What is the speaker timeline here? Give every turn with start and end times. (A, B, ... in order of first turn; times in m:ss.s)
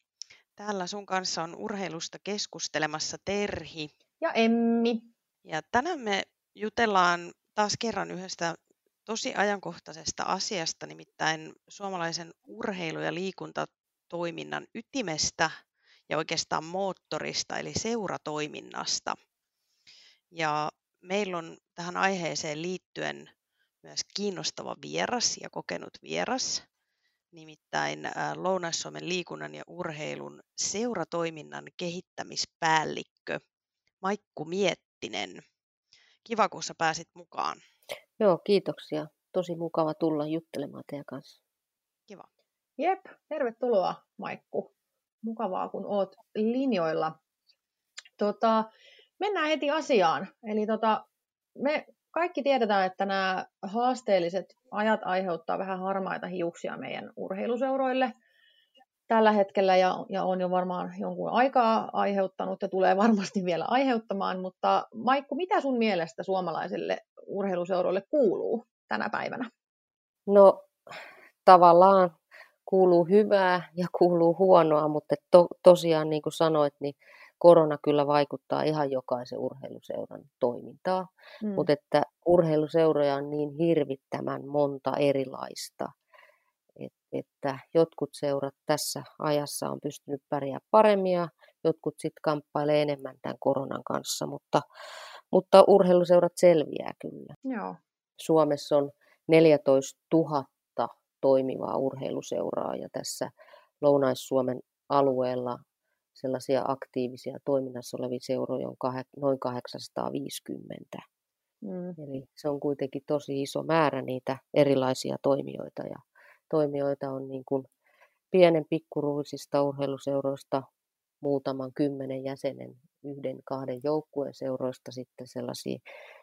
0:00.6-0:03.9 A
0:04.2-0:05.1 B
0:05.4-0:15.5 A
0:16.1-0:19.2 A
0:20.3-0:23.3 A
0:23.8-0:26.6 A
0:27.3-0:33.4 A
0:34.0-0:35.4 A
0:36.2-0:37.6 A
0:38.2-0:41.4 C
0:42.8-0:44.7 B
0:45.2-0:47.1 B
0:48.2-0:51.0 B
0:51.6-0:58.1 B
0:59.1-1:09.5 B
1:10.3-1:10.7 C
1:11.4-1:25.9 C
1:21.4-1:21.7 B
1:26.8-1:34.6 C
1:35.3-1:37.3 C
1:37.4-1:37.8 B
1:38.2-1:43.3 C
1:43.8-1:45.6 C
1:46.1-1:51.0 C
1:51.6-1:52.0 B
1:52.0-1:57.7 C
1:58.3-2:00.6 C
2:01.2-2:05.8 C